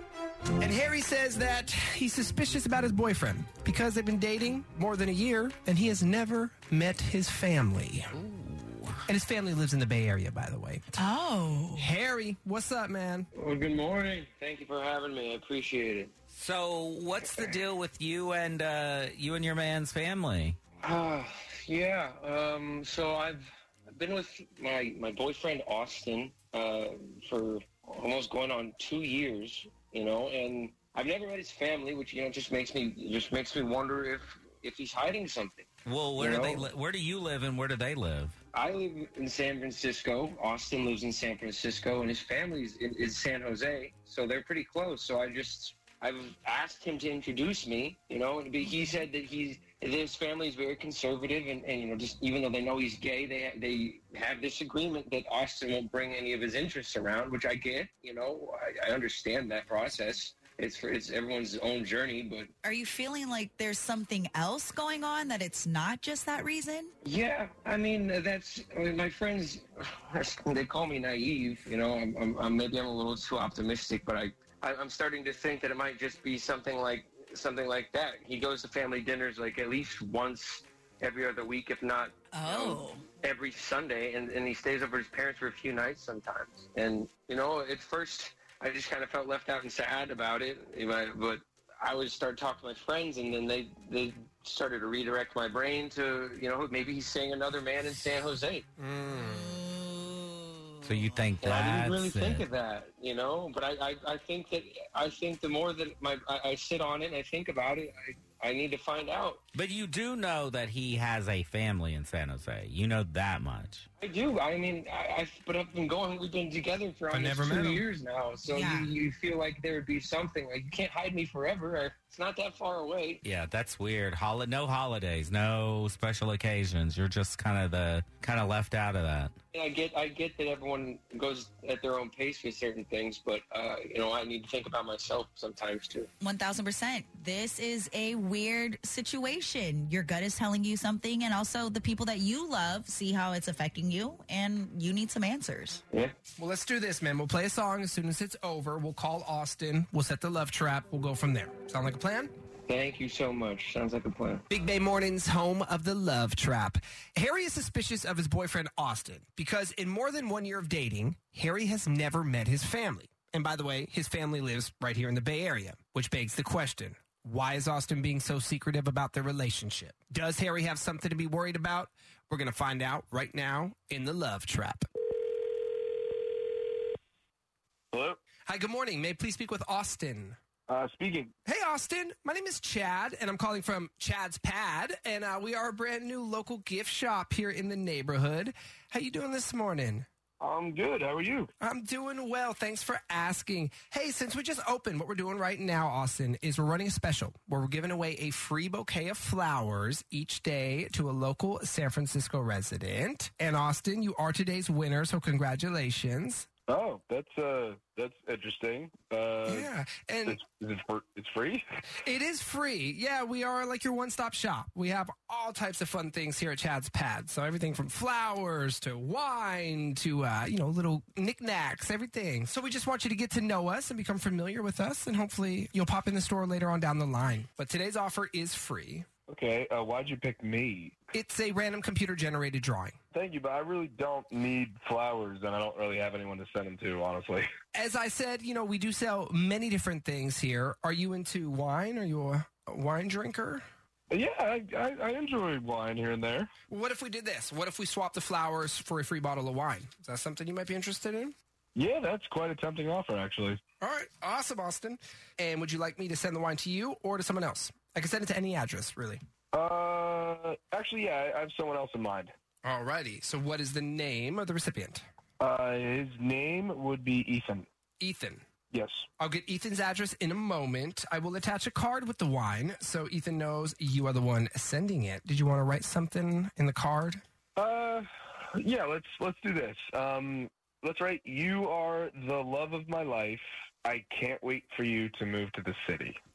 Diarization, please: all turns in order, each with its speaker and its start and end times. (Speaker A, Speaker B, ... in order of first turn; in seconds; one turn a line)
Speaker A: 0.6-8.1
Speaker B: 8.1-9.0
Speaker A: 9.1-11.0
Speaker C: 11.0-11.9
Speaker A: 11.8-13.3
Speaker D: 13.3-16.1
Speaker B: 16.3-20.6
Speaker D: 20.8-36.7
Speaker B: 35.9-38.4
Speaker D: 38.5-62.5
Speaker C: 62.6-66.9
Speaker D: 67.0-98.7
Speaker C: 82.3-83.0
Speaker A: 98.8-99.6
Speaker C: 99.1-101.2
Speaker B: 100.8-102.5
Speaker D: 101.4-109.4
Speaker B: 109.5-113.9
Speaker D: 114.0-123.2
Speaker A: 117.1-117.8
Speaker C: 118.5-118.9
Speaker B: 123.2-129.3
Speaker D: 129.5-136.1
Speaker C: 136.2-145.8
Speaker A: 146.4-152.3
Speaker D: 152.7-154.4
Speaker A: 154.5-174.9
Speaker E: 177.9-178.2
Speaker A: 178.5-180.4
Speaker E: 180.7-181.3
Speaker A: 181.5-190.1
Speaker E: 190.4-191.5
Speaker A: 191.6-206.5
Speaker E: 206.7-209.7
Speaker A: 209.5-210.4
Speaker E: 210.3-211.7
Speaker A: 212.0-229.1
Speaker E: 229.3-231.0
Speaker A: 231.1-233.0
Speaker E: 233.1-237.5
Speaker A: 237.7-243.7
Speaker E: 244.1-246.5
Speaker A: 246.7-251.4
Speaker E: 251.8-253.6
Speaker A: 253.8-259.2
Speaker E: 259.5-262.3
Speaker A: 262.6-265.0
Speaker E: 265.4-267.7
Speaker A: 268.0-268.4
Speaker E: 268.7-269.1
Speaker A: 269.2-277.2
Speaker E: 277.6-286.2